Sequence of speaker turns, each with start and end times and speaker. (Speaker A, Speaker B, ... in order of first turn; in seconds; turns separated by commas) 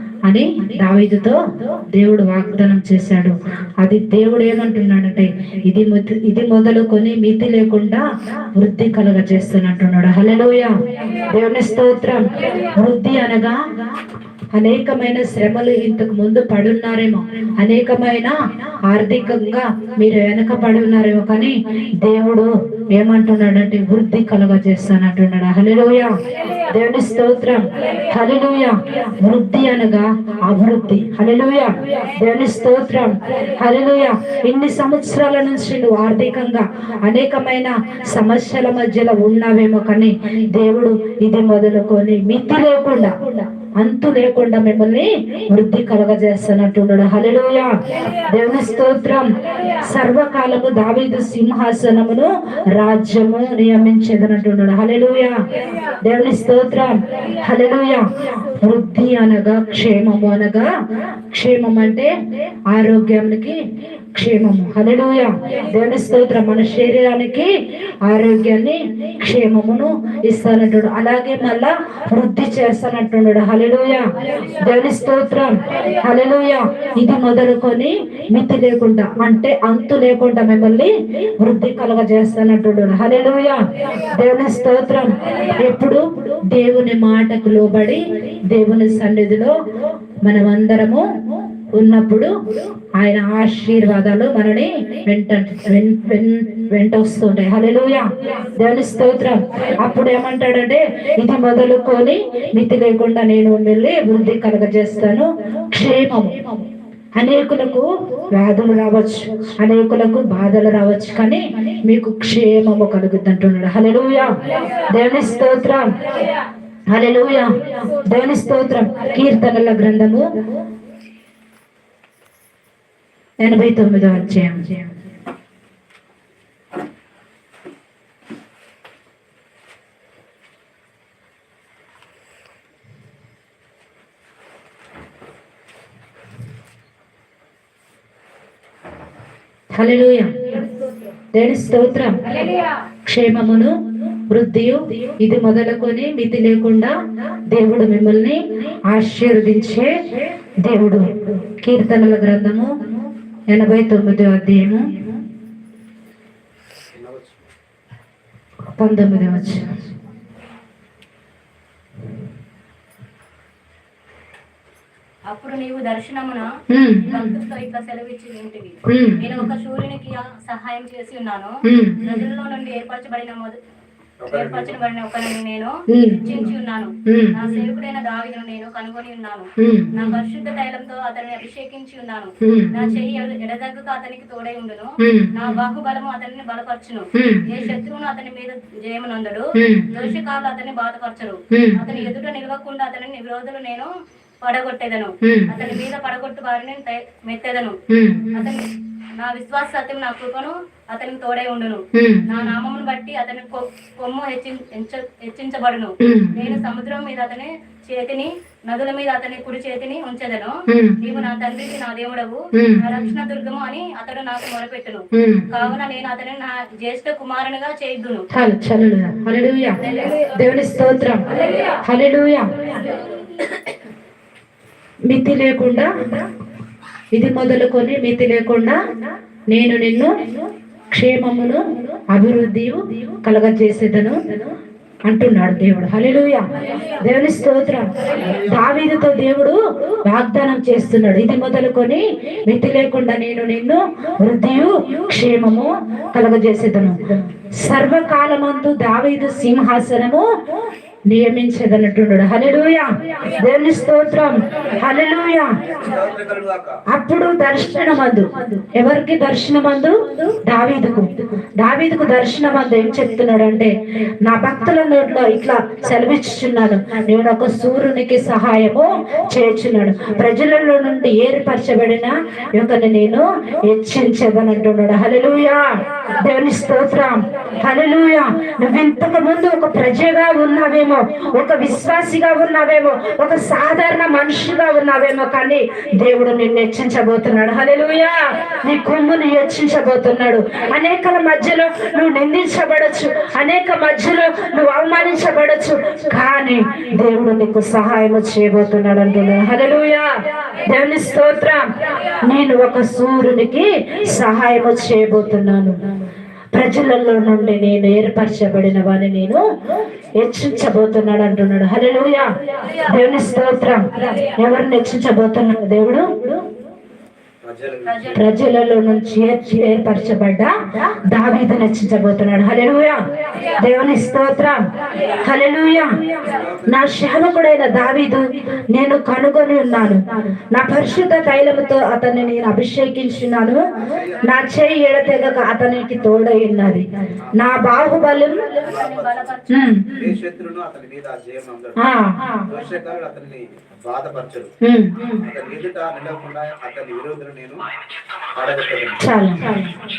Speaker A: 0.2-13.8, Speaker A: 14.5-26.1, Speaker A: 26.7-55.4, Speaker A: 56.0-60.7, Speaker A: 61.3-62.1, Speaker A: 62.7-63.6, Speaker A: 64.1-67.5, Speaker A: 68.0-89.5, Speaker A: 90.2-91.0, Speaker A: 91.7-92.3, Speaker A: 92.9-106.6, Speaker A: 107.1-114.3, Speaker A: 114.9-116.0, Speaker A: 116.9-120.3, Speaker A: 123.4-124.9, Speaker A: 139.7-140.5, Speaker A: 141.3-142.3, Speaker A: 143.0-146.9, Speaker A: 147.5-149.9, Speaker A: 150.6-152.8, Speaker A: 153.5-155.1, Speaker B: 156.9-157.5, Speaker A: 158.8-159.7, Speaker C: 165.3-166.5, Speaker A: 166.7-167.3, Speaker C: 167.1-173.6, Speaker A: 168.9-169.5, Speaker A: 171.6-172.3, Speaker B: 174.2-174.8, Speaker C: 174.2-193.9, Speaker A: 175.9-176.5, Speaker A: 177.1-177.7, Speaker A: 179.6-180.2, Speaker A: 182.4-183.0, Speaker A: 185.0-185.6, Speaker A: 187.1-187.7, Speaker A: 189.5-190.1, Speaker A: 191.5-192.1, Speaker C: 194.4-197.8, Speaker A: 195.2-195.8, Speaker A: 197.9-198.5, Speaker C: 198.3-218.2, Speaker A: 201.9-202.5, Speaker A: 206.0-206.6, Speaker A: 210.7-211.2, Speaker A: 212.5-213.1, Speaker A: 215.1-215.7, Speaker A: 218.3-219.8, Speaker A: 220.3-221.2, Speaker A: 221.8-222.4, Speaker A: 225.1-226.1, Speaker A: 227.1-228.8, Speaker A: 229.5-230.2, Speaker A: 230.9-234.2, Speaker A: 235.1-236.4, Speaker A: 237.0-250.2, Speaker A: 251.1-255.6, Speaker B: 255.8-256.8, Speaker A: 256.9-301.7, Speaker A: 302.2-305.7, Speaker A: 306.5-309.4, Speaker A: 310.1-316.4, Speaker B: 317.4-318.3, Speaker C: 317.8-318.2, Speaker A: 318.1-323.0, Speaker A: 323.6-324.6, Speaker A: 325.2-326.0, Speaker B: 326.3-326.7, Speaker A: 326.7-333.6, Speaker B: 333.9-334.2, Speaker A: 334.2-338.5, Speaker C: 338.5-339.5, Speaker B: 338.6-341.8, Speaker A: 339.5-340.1, Speaker A: 341.8-342.4, Speaker B: 342.4-344.5, Speaker A: 344.6-345.2, Speaker B: 345.2-347.6, Speaker B: 348.3-349.0, Speaker A: 349.0-349.7